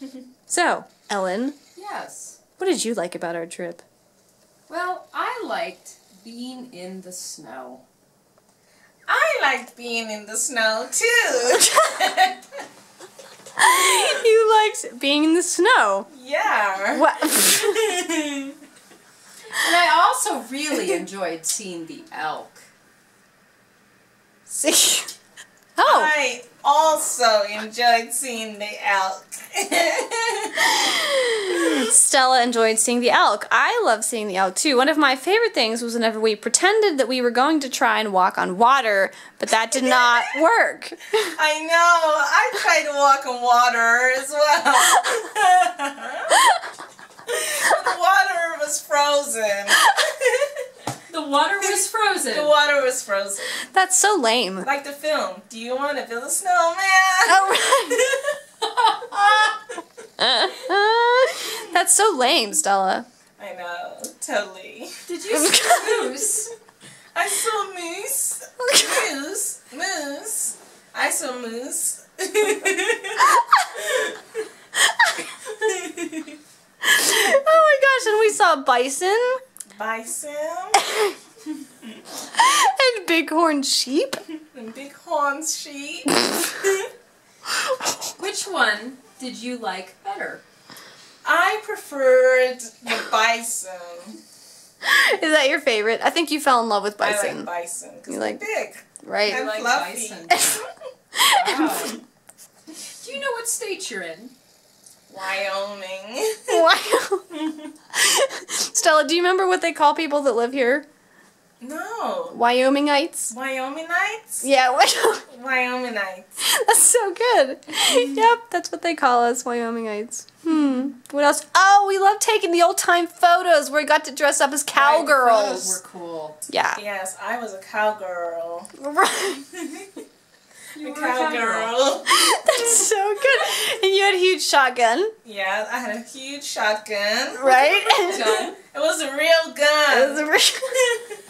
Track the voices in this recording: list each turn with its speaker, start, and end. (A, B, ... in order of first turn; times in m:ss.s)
0:00.5-0:01.6 A
0:01.7-0:02.4 B
0:02.6-0:03.8 A
0:04.7-0:07.8 B
0:09.1-0:12.5 C
0:11.5-0:12.0 A
0:13.6-0:16.1 A
0:16.1-0:18.6 C
0:16.9-0:17.9 A
0:19.5-0:22.6 B
0:24.5-0:25.1 A
0:25.8-0:26.1 A
0:25.8-0:31.9 C
0:30.8-0:41.3 A
0:39.7-0:40.4 C
0:41.3-0:46.4 C
0:46.4-0:46.6 A
0:47.3-0:50.6 C
0:51.1-0:52.5 B
0:52.3-0:53.6 C
0:53.6-0:54.7 A
0:54.6-0:58.3 C
0:57.2-0:58.1 A
0:58.8-0:59.5 B
1:00.2-1:03.1 A
1:03.4-1:05.0 C
1:05.1-1:06.5 B
1:05.3-1:06.1 A
1:07.1-1:14.2 C
1:08.6-1:09.0 A
1:15.4-1:16.3 C
1:16.8-1:19.4 A
1:19.7-1:20.8 C
1:20.8-1:21.2 A
1:21.7-1:22.0 C
1:22.3-1:24.2 A
1:24.5-1:26.8 C
1:27.6-1:28.1 A
1:28.2-1:30.4 B
1:31.2-1:34.2 C
1:34.8-1:37.5 A
1:37.0-1:40.6 C
1:38.1-1:38.4 A
1:39.0-1:39.5 A
1:39.3-1:40.5 B
1:40.3-1:40.6 A
1:41.2-1:41.9 A
1:41.2-1:42.0 B
1:43.0-1:44.3 B
1:45.1-1:46.6 C
1:46.5-1:47.3 A
1:47.3-1:47.7 C
1:47.9-1:50.8 A
1:51.6-1:52.4 C
1:52.3-1:53.3 A
1:53.3-1:54.4 C
1:54.4-1:55.2 A
1:55.3-1:56.4 C
1:56.4-2:05.8 A
2:04.7-2:06.4 B
2:06.5-2:06.8 A
2:06.7-2:08.7 C
2:08.8-2:09.4 A
2:09.5-2:10.0 C
2:10.7-2:11.8 B
2:10.8-2:12.8 C
2:12.0-2:15.1 A
2:15.2-2:20.2 C
2:17.3-2:18.5 A
2:17.8-2:18.6 B
2:19.9-2:20.9 A